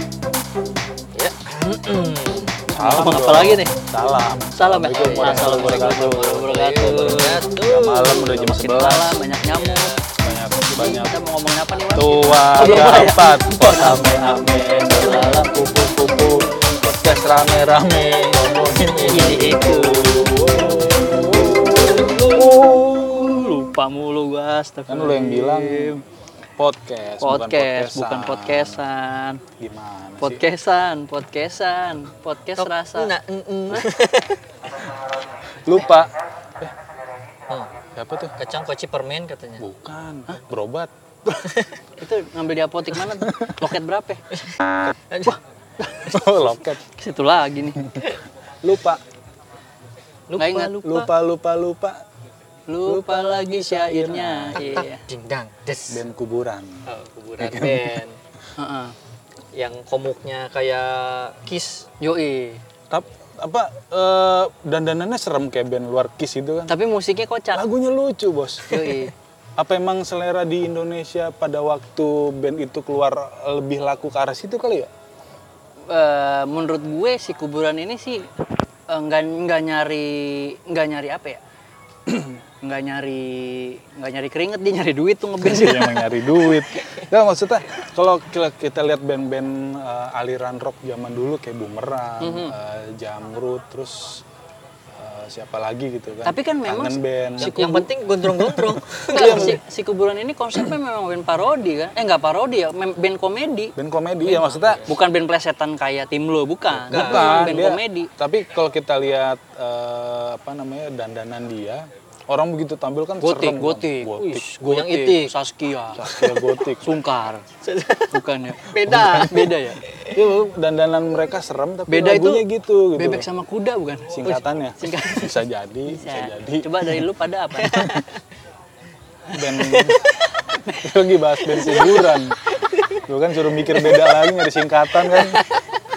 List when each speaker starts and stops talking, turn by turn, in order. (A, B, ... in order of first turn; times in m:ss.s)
0:01.1-0:02.6 A
0:02.7-0:03.8 B
0:02.7-0:06.3 C
0:04.5-0:07.4 B
0:04.9-0:08.5 A
0:06.8-0:09.2 C
0:08.4-0:10.0 B
0:09.4-0:10.1 A
0:10.2-0:11.2 C
0:10.7-0:15.5 B
0:11.9-0:23.2 C
0:12.7-0:12.9 A
0:17.7-0:19.5 A
0:19.1-0:20.4 B
0:21.2-0:22.5 A
0:22.3-0:26.0 B
0:24.9-0:26.0 C
0:26.6-0:28.8 C
0:27.2-0:29.4 B
0:29.6-0:30.4 C
0:30.2-0:33.1 B
0:32.6-0:34.4 A
0:35.6-0:36.7 C
0:37.9-0:38.3 C
0:38.4-0:39.6 A
0:39.6-0:40.9 C
0:41.4-0:41.7 A
0:42.0-0:44.2 B
0:43.2-0:43.6 C
0:45.1-0:45.4 A
0:45.3-0:46.1 B
0:46.0-0:46.8 C
0:46.9-0:47.9 B
0:48.6-0:49.0 C
0:50.3-0:50.9 A
0:50.4-0:51.1 B
0:50.8-0:52.0 C
0:52.7-0:55.0 B
0:52.8-0:54.7 C
0:54.5-0:56.0 A
0:55.9-0:56.8 C
0:56.9-0:58.2 A
0:57.4-0:58.0 C
0:58.6-0:58.9 B
0:59.5-1:01.8 A
1:02.0-1:02.6 B
1:02.9-1:06.8 C
1:06.7-1:07.6 B
1:07.5-1:14.9 C
1:08.7-1:09.1 B
1:15.9-1:18.2 B
1:18.9-1:21.4 B
1:22.6-1:26.4 B
1:25.4-1:34.2 C
1:32.2-1:32.5 B
1:35.0-1:37.6 C
1:36.2-1:37.9 B
1:37.4-1:39.6 A
1:38.4-1:39.6 C
1:39.1-1:43.7 B
1:43.8-1:44.9 C
1:44.2-1:44.9 A
1:44.8-1:48.1 B
1:46.8-1:54.4 C
1:46.9-1:47.6 A
1:53.2-1:56.1 B
1:54.2-1:55.3 A
1:56.0-1:56.9 C
1:56.0-1:56.5 A
1:56.8-1:57.4 B
1:57.6-2:00.3 A
1:58.1-1:59.8 B
1:58.9-1:59.2 C
2:00.1-2:03.2 C
2:01.9-2:04.2 B
2:04.1-2:06.9 C
2:04.2-2:05.3 A
2:04.8-2:05.3 B
2:05.9-2:07.8 B
2:07.6-2:08.1 A
2:07.7-2:08.0 C
2:09.3-2:10.0 C
2:09.6-2:10.3 A
2:10.5-2:10.9 B
2:10.8-2:12.4 C
2:11.5-2:13.0 A
2:13.1-2:15.4 C
2:13.6-2:14.3 A
2:15.0-2:15.8 A